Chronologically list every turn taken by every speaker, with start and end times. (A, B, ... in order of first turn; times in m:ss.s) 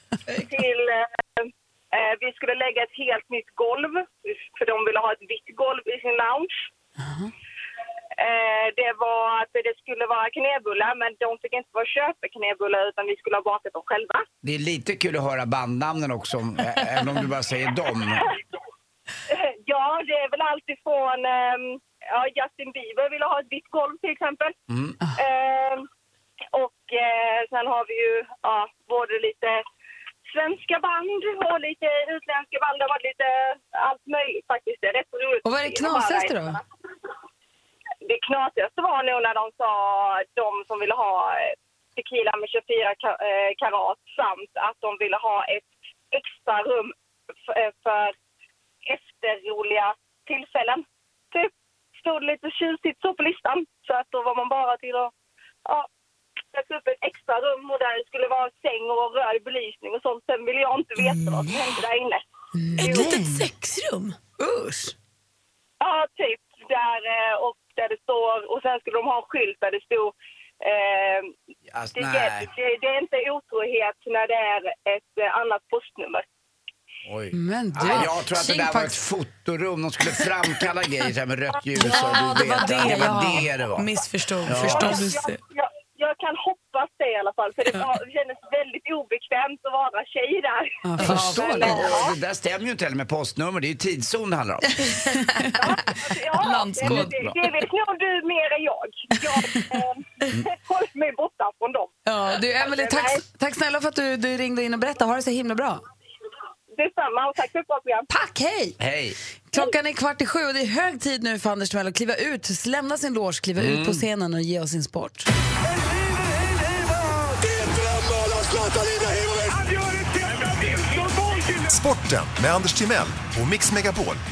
0:00.4-0:06.5 A
0:07.0-0:07.3 B
0:08.2-0:14.2 A
0:14.4-0:18.3 C
0:19.3-0:24.6 A
0:24.7-0:25.0 C
0:25.2-0:25.8 A
0:26.5-0:29.6 A
0:30.3-0:36.6 A
0:35.4-0:36.6 B
0:38.0-0:46.9 A
0:47.5-0:48.1 A
0:48.9-0:55.1 A
0:56.5-1:02.2 A
1:02.6-1:03.5 B
1:02.8-1:04.2 D
1:04.4-1:04.9 B
1:05.8-1:11.3 A
1:11.7-1:12.5 C
1:12.0-1:16.2 A
1:17.0-1:23.9 C
1:17.3-1:19.0 B
1:21.8-1:25.4 D
1:21.8-1:23.5 B
1:24.4-1:25.0 C
1:24.6-1:32.1 A
1:30.8-1:31.9 B
1:31.0-1:34.7 C
1:34.8-1:35.6 B
1:35.6-1:42.0 A
1:36.4-1:37.1 B
1:36.4-1:37.0 D
1:36.8-1:37.4 C
1:42.1-1:45.8 B
1:42.6-1:43.2 A
1:46.7-1:48.1 A
1:48.1-1:48.8 B
1:48.8-1:49.2 C
1:49.5-1:55.3 B
1:53.6-1:54.0 C
2:01.4-2:04.2 E